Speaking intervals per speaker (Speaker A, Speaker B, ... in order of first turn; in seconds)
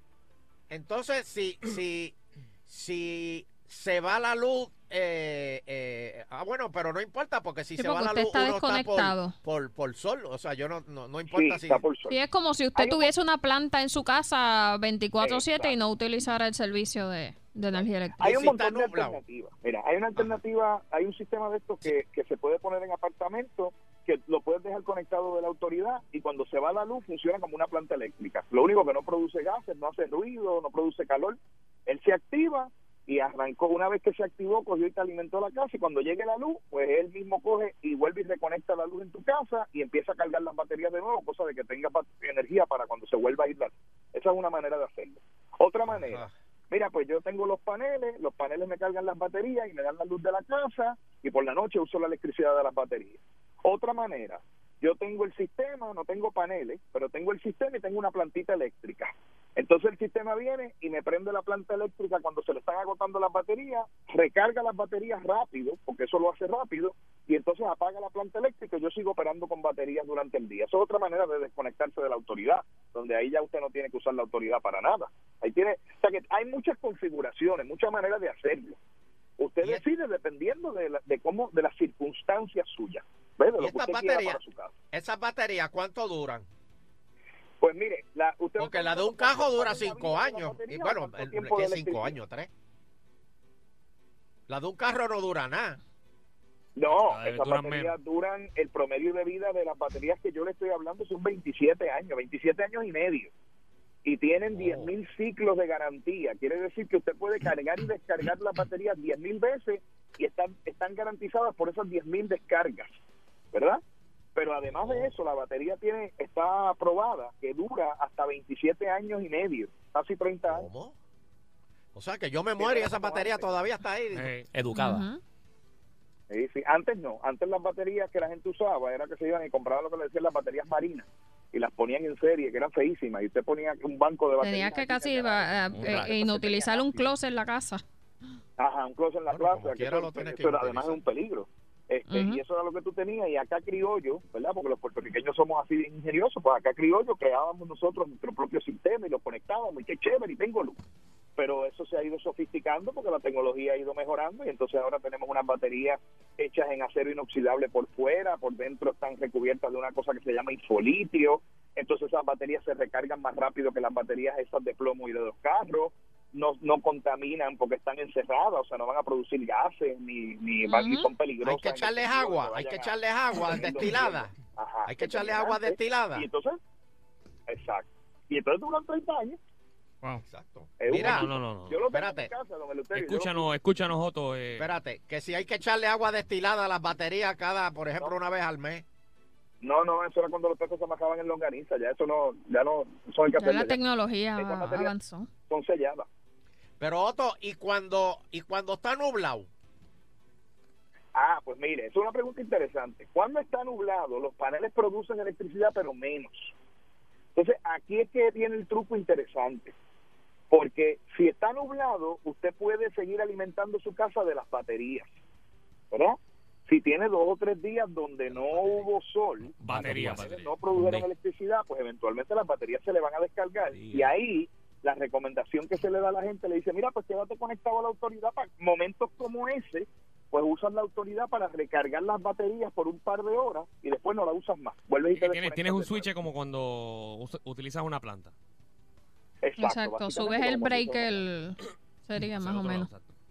Speaker A: 0.7-11.8, 18.2-19.2, 45.9-46.3, 83.6-84.4, 84.9-86.5, 88.6-92.5, 94.5-95.8, 104.6-104.9, 114.7-115.1, 120.5-121.0, 121.9-124.3, 139.3-141.0, 171.4-174.3, 174.9-176.3, 180.3-182.3, 184.6-188.8, 196.8-199.5, 218.3-219.0
Speaker B: 7.8-9.3, 12.1-18.3, 124.8-125.2, 134.4-137.8, 142.1-142.4, 170.7-171.1, 193.4-195.3, 239.6-242.9
Speaker C: 11.3-12.2, 12.8-13.1, 15.2-15.7, 18.2-78.8, 79.4-84.8, 87.6-92.2, 96.8-103.3, 104.0-113.0, 113.5-113.8, 114.3-120.7, 122.6-123.5, 126.3-137.1, 138.6-150.8, 151.4-176.6, 177.5-179.4, 180.8-183.5, 189.6-193.8, 194.4-194.9, 195.5-196.1, 201.2-206.5, 207.3-209.7, 210.5-215.1, 215.9-236.1, 239.4-241.2
Speaker D: 96.9-97.9, 124.1-124.5, 180.9-181.8, 182.9-184.7, 219.6-220.6, 235.2-238.3, 242.3-243.1
Speaker E: 124.5-125.0, 219.6-221.0, 223.8-224.1